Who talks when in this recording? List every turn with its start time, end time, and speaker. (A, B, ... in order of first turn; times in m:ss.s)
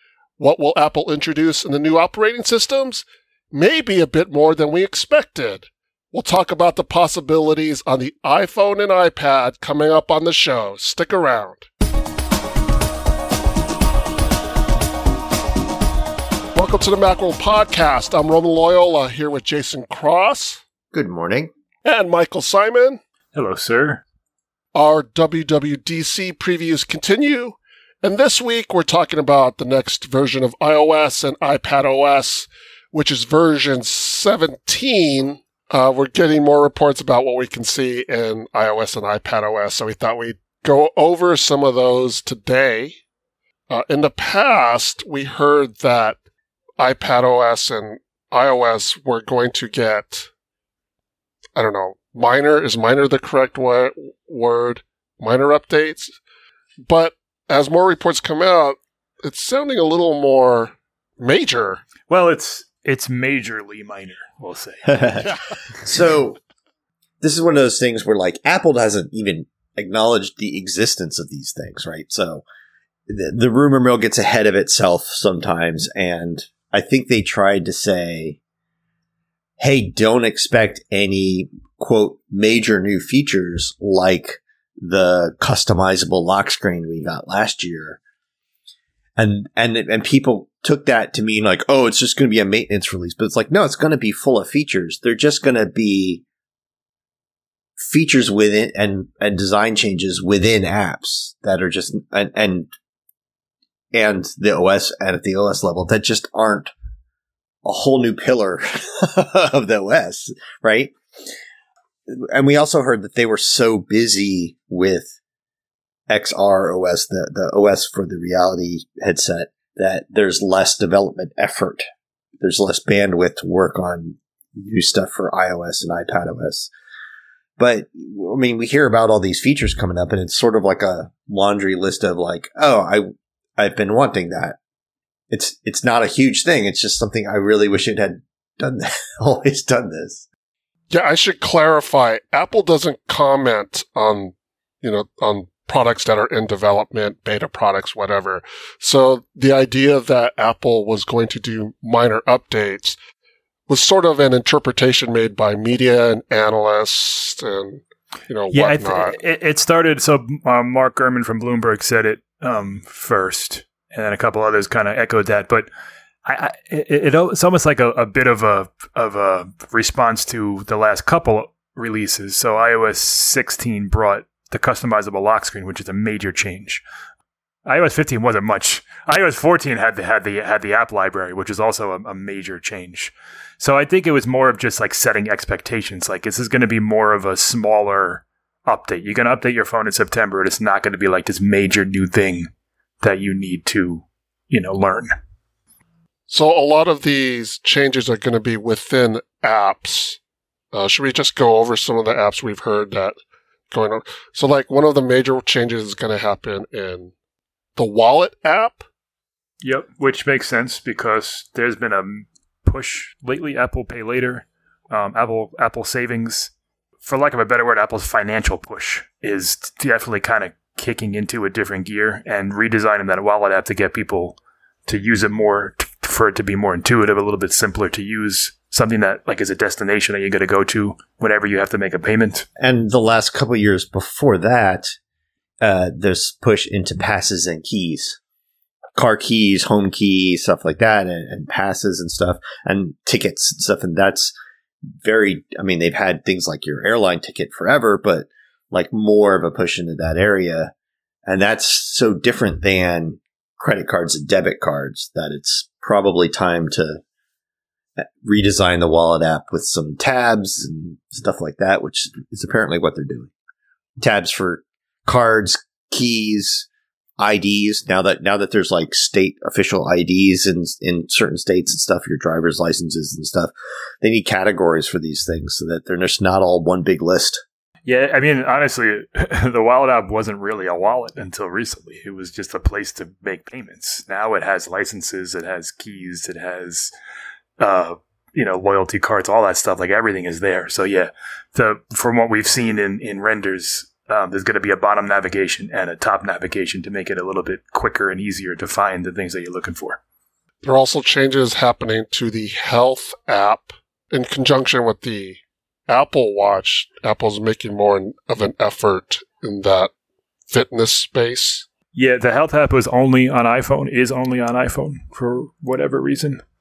0:00.4-0:11.7 A
0:16.5-0:20.6 A
0:20.9-0:21.5 B
0:21.8-0:23.0 A
0:23.3-0:24.0 C
0:24.8-0:43.0 A
0:43.7-0:46.2 A
0:46.8-0:50.3 A
0:51.6-0:56.2 A
0:56.9-1:01.8 A
1:02.1-1:05.3 C
1:04.8-1:05.3 B
1:05.8-1:06.4 B
1:07.2-1:12.4 B
1:13.1-1:18.4 B
1:19.6-1:28.0 B
1:29.2-1:36.2 B
1:37.8-1:42.7 B
1:43.9-1:46.7 B
1:47.6-1:50.9 B
1:52.1-1:55.1 B
1:56.1-2:01.8 B
2:02.4-2:06.7 B
2:07.6-2:13.0 B
2:13.6-2:14.6 B
2:15.3-2:20.2 B
2:20.9-2:33.0 A
2:33.7-2:39.2 A
2:38.5-2:45.7 C
2:46.2-2:56.8 C
2:57.7-3:12.5 C
3:13.0-3:15.1 C
3:16.3-3:20.2 A
3:20.7-3:23.2 A
3:23.7-3:27.1 A
3:27.8-3:28.8 A
3:29.6-3:36.5 C
3:37.0-3:52.4 C
3:52.6-3:54.9 B
3:55.6-3:58.2 B
3:58.9-4:04.3 B
4:04.9-4:10.7 B
4:11.3-4:17.0 B
4:18.0-4:23.3 B
4:24.0-4:37.4 B
4:37.8-4:46.9 C
4:47.6-5:00.0 C
5:00.6-5:09.9 A
5:10.5-5:11.7 A
5:11.9-5:16.4 C